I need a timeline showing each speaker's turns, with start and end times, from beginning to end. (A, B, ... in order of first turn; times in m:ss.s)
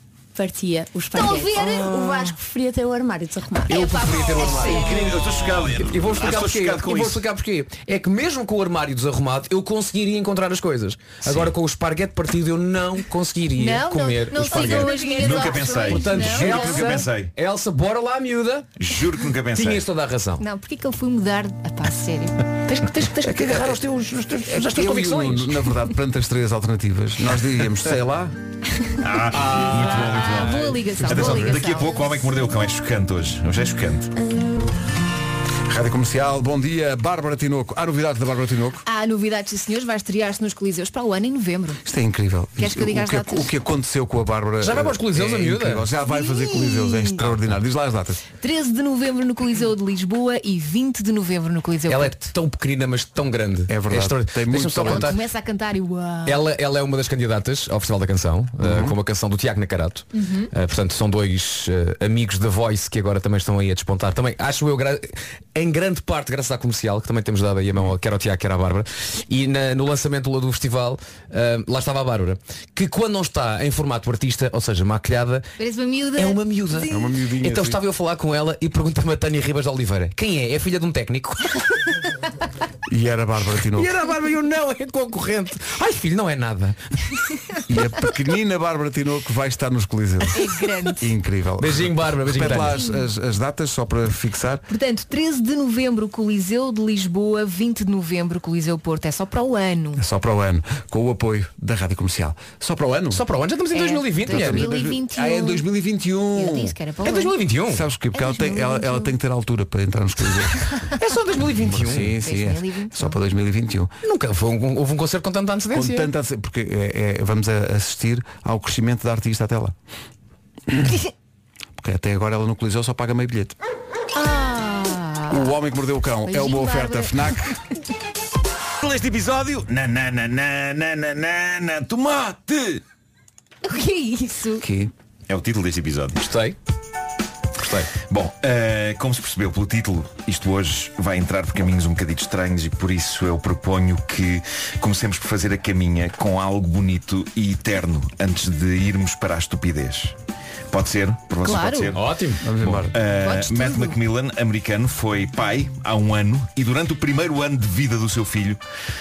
0:00.3-0:04.2 A
0:01.1-0:02.4 B
0:03.6-0:05.1 B
0:03.7-0:18.7 C
0:04.6-0:07.2 D
0:11.2-0:11.5 D
0:13.5-0:17.0 B
0:15.0-0:17.3 D
0:18.8-0:19.9 D
0:19.5-0:20.4 C
0:20.4-0:23.2 B
0:23.1-0:25.6 C
0:23.2-0:23.8 E
0:24.4-0:28.3 E
0:29.0-0:34.1 D
0:29.3-0:31.4 C
0:29.8-0:32.0 B
0:31.1-0:31.4 E
0:35.7-0:38.8 E
0:38.8-0:41.8 B
0:41.8-0:48.2 E
0:42.6-0:43.5 B
0:44.6-0:45.9 C
0:46.1-0:47.2 B
0:48.4-0:52.3 B
0:51.9-0:55.2 C
0:53.7-0:55.2 E
0:54.8-0:56.4 B
0:56.2-1:15.4 C
0:58.6-0:59.0 E
1:00.1-1:00.5 B
1:15.6-1:17.0 B
1:16.2-1:21.6 C
1:16.9-1:17.8 E
1:22.9-1:23.9 E
1:23.7-1:26.8 C
1:27.7-1:34.6 E
1:30.3-1:31.1 B
1:31.6-1:32.8 C
1:32.5-1:33.0 B
1:34.7-1:40.0 B
1:40.0-1:43.2 E
1:43.1-1:44.7 C
1:43.7-1:45.6 B
1:44.2-1:46.8 E
1:46.3-1:47.4 B
1:47.0-1:47.8 C
1:47.7-1:50.7 E
1:48.1-1:49.1 B
1:51.0-1:52.1 C
1:51.4-1:53.9 E
1:52.1-1:53.2 B
1:54.0-1:56.1 C
1:55.7-1:59.7 E
2:00.7-2:01.0 E
2:01.8-2:03.6 E
2:04.1-2:05.6 B
2:05.3-2:07.6 E
2:06.2-2:07.4 B
2:08.8-2:12.8 D
2:13.6-2:14.6 B
2:14.6-2:14.9 E
2:15.3-2:16.3 D
2:16.2-2:16.6 C
2:17.6-2:17.9 C
2:18.0-2:30.2 D
2:30.7-2:32.1 D
2:31.4-2:32.0 B
2:31.9-2:32.5 C
2:32.4-2:32.9 E
2:32.6-2:38.6 D
2:33.1-2:34.0 B